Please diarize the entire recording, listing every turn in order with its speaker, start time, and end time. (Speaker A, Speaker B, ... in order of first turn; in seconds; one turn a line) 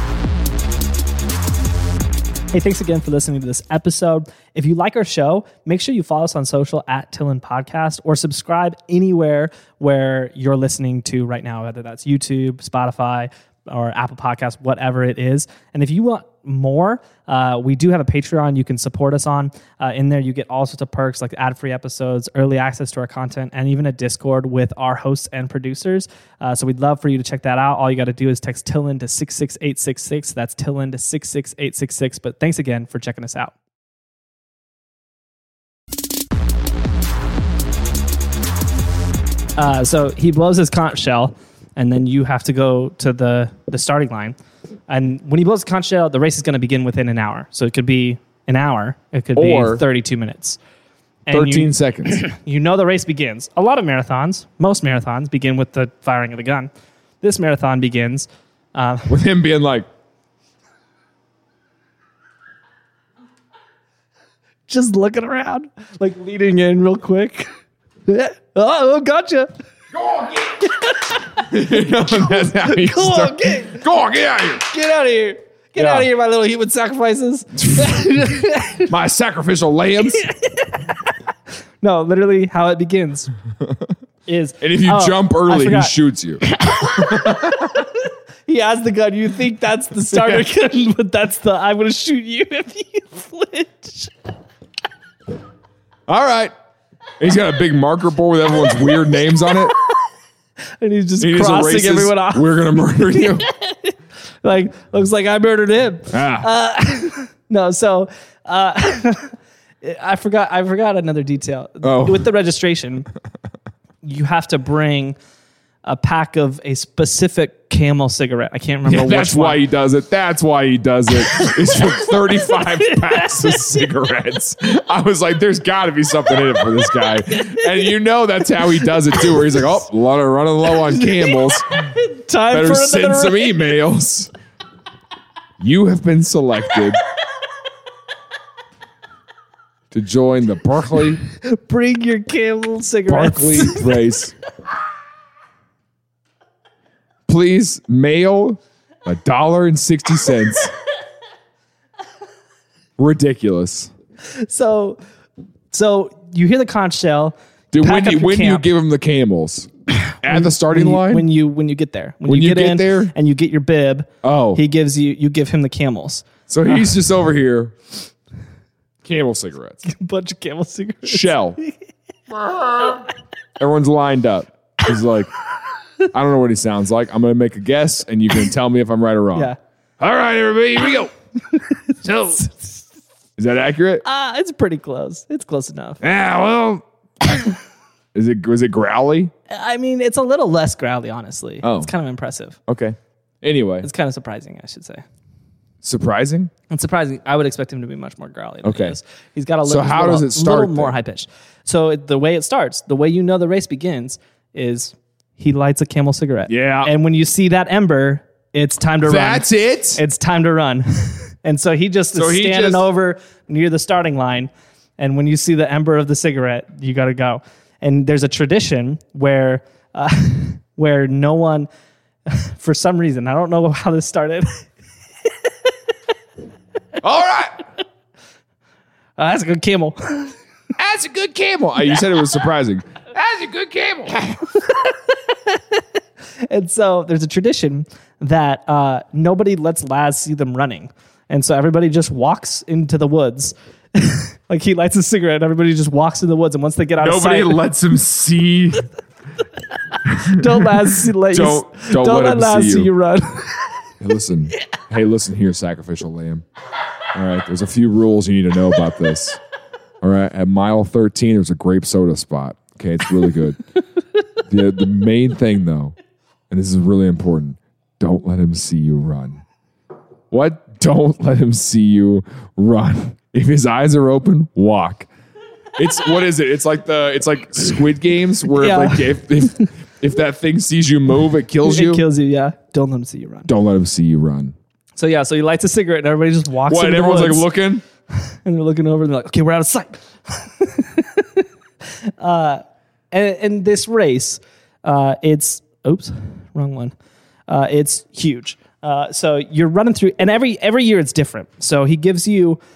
Speaker A: 2.5-33.5
Speaker A: 39.6-44.4
Speaker A: 44.9-50.6
Speaker B: 49.4-49.8
Speaker A: 51.3-56.7
Speaker B: 51.3-52.2
Speaker A: 57.2-59.2
Speaker B: 59.1-59.9
Speaker A: 64.7-67.5
Speaker A: 68.1-69.5
Speaker B: 69.9-70.7
Speaker A: 70.6-71.2
Speaker B: 71.3-74.7
Speaker A: 72.2-73.8
Speaker A: 74.7-78.9
Speaker B: 75.8-76.1
Speaker B: 78.9-80.3
Speaker A: 80.1-81.1
Speaker A: 81.8-83.3
Speaker A: 84.3-85.9
Speaker B: 84.6-86.4
Speaker A: 86.5-94.1
Speaker B: 86.9-87.7
Speaker B: 90.1-90.5
Speaker B: 96.1-96.5
Speaker B: 97.2-99.7
Speaker A: 100.8-113.1
Speaker B: 101.2-103.5
Speaker B: 106.1-106.5
Speaker B: 111.8-112.3
Speaker A: 114.0-115.2
Speaker A: 115.8-119.6
Speaker B: 118.8-131.9
Speaker A: 121.3-123.6
Speaker A: 129.1-129.6
Speaker A: 130.7-133.6
Speaker B: 132.5-134.3
Speaker B: 135.6-137.0
Speaker B: 139.9-141.2
Speaker A: 141.3-143.9
Speaker B: 143.1-144.3
Speaker B: 147.3-150.7
Speaker B: 153.0-153.9
Speaker A: 154.2-155.0
Speaker A: 155.7-158.7
Speaker B: 157.7-161.3
Speaker A: 160.3-166.2
Speaker B: 162.3-163.1
Speaker B: 164.2-164.6
Speaker B: 166.5-167.8
Speaker B: 169.0-169.8
Speaker A: 169.8-171.7
Speaker B: 171.0-171.6
Speaker B: 172.3-173.1
Speaker B: 173.6-175.3
Speaker B: 176.1-181.1
Speaker B: 182.0-182.4
Speaker A: 182.3-182.8
Speaker B: 183.4-184.0
Speaker A: 184.0-186.0
Speaker B: 186.0-187.4
Speaker B: 188.1-189.3
Speaker A: 189.5-192.6
Speaker B: 191.6-191.9
Speaker B: 192.7-193.9
Speaker A: 193.8-195.0
Speaker B: 195.8-196.5
Speaker A: 196.7-221.7
Speaker B: 198.6-199.0
Speaker B: 199.6-200.9
Speaker B: 206.5-206.9
Speaker B: 209.0-210.0
Speaker B: 212.1-212.8
Speaker A: 222.3-224.7
Speaker B: 227.0-227.6
Speaker A: 229.2-230.3
Speaker B: 230.8-234.3
Speaker A: 234.6-235.8
Speaker A: 236.4-247.6
Speaker B: 247.0-248.9
Speaker B: 250.0-252.9
Speaker A: 250.2-253.9
Speaker B: 254.0-256.4
Speaker B: 257.1-259.4
Speaker B: 260.0-263.6
Speaker B: 264.5-265.9
Speaker B: 266.5-269.4
Speaker B: 270.3-275.1
Speaker B: 275.8-282.0
Speaker A: 278.5-279.7
Speaker A: 281.6-283.5
Speaker B: 283.5-284.5
Speaker A: 285.0-287.5
Speaker B: 286.7-287.8
Speaker A: 288.1-291.4
Speaker A: 292.2-296.9
Speaker A: 297.5-302.6